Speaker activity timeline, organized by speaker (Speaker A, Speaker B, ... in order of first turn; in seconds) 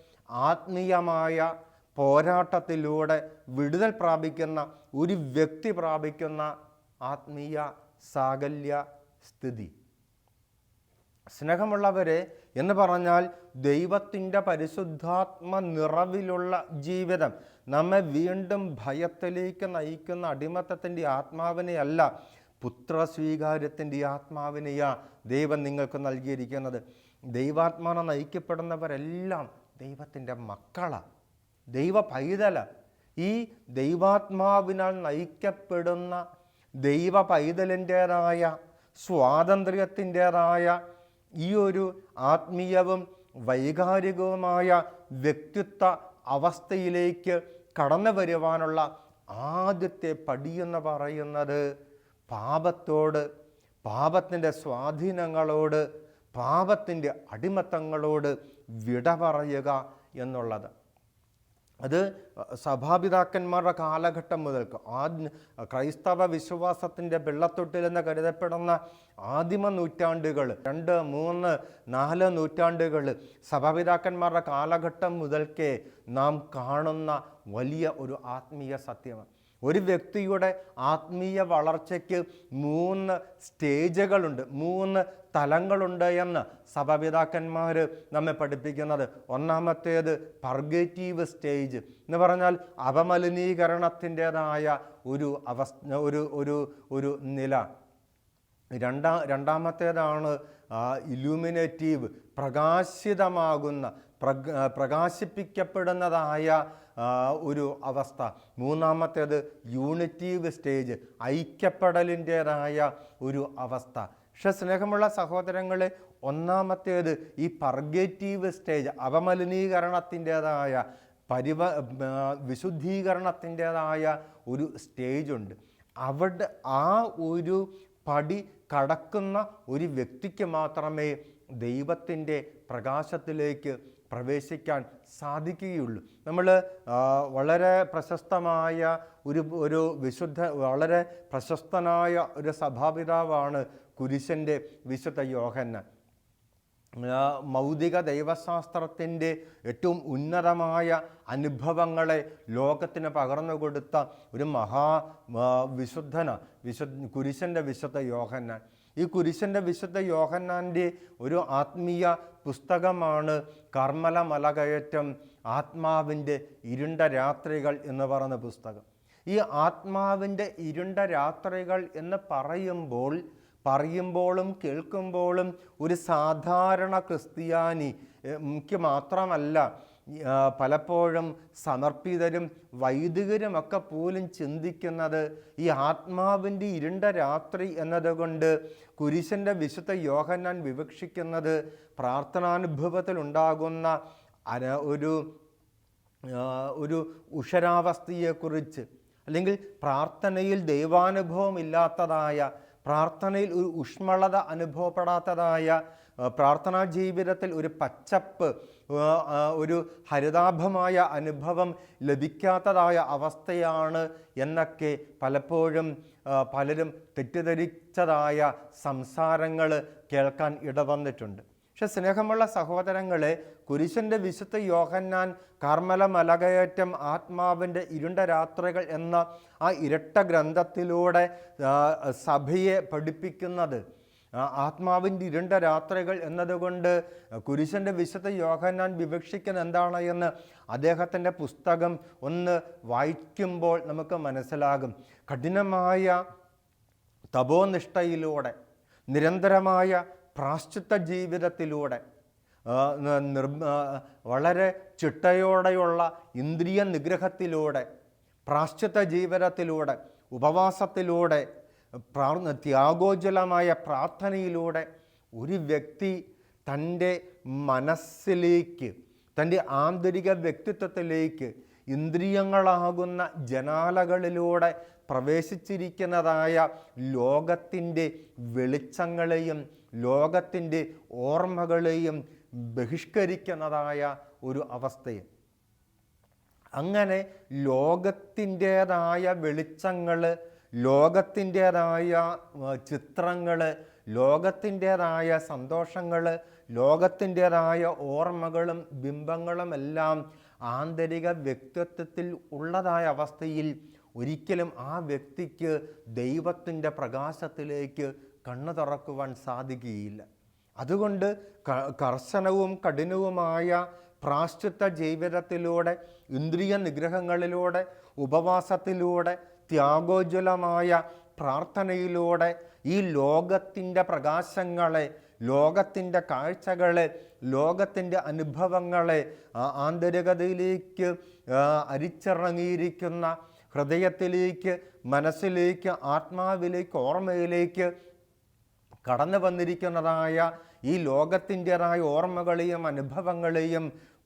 Speaker A: 0.4-6.5, 7.0-9.7, 11.3-22.1, 22.6-26.8, 27.3-31.0, 31.7-32.6, 33.2-36.2, 36.8-40.8, 41.4-51.6, 52.3-53.2, 53.8-60.7, 61.8-97.7, 98.7-145.8, 147.0-193.9, 194.5-195.3, 196.3-233.8, 234.3-246.2, 247.3-248.5, 249.1-252.0, 252.7-257.9, 258.5-261.4, 262.1-285.2, 286.8-310.2, 310.8-337.9, 339.0-343.9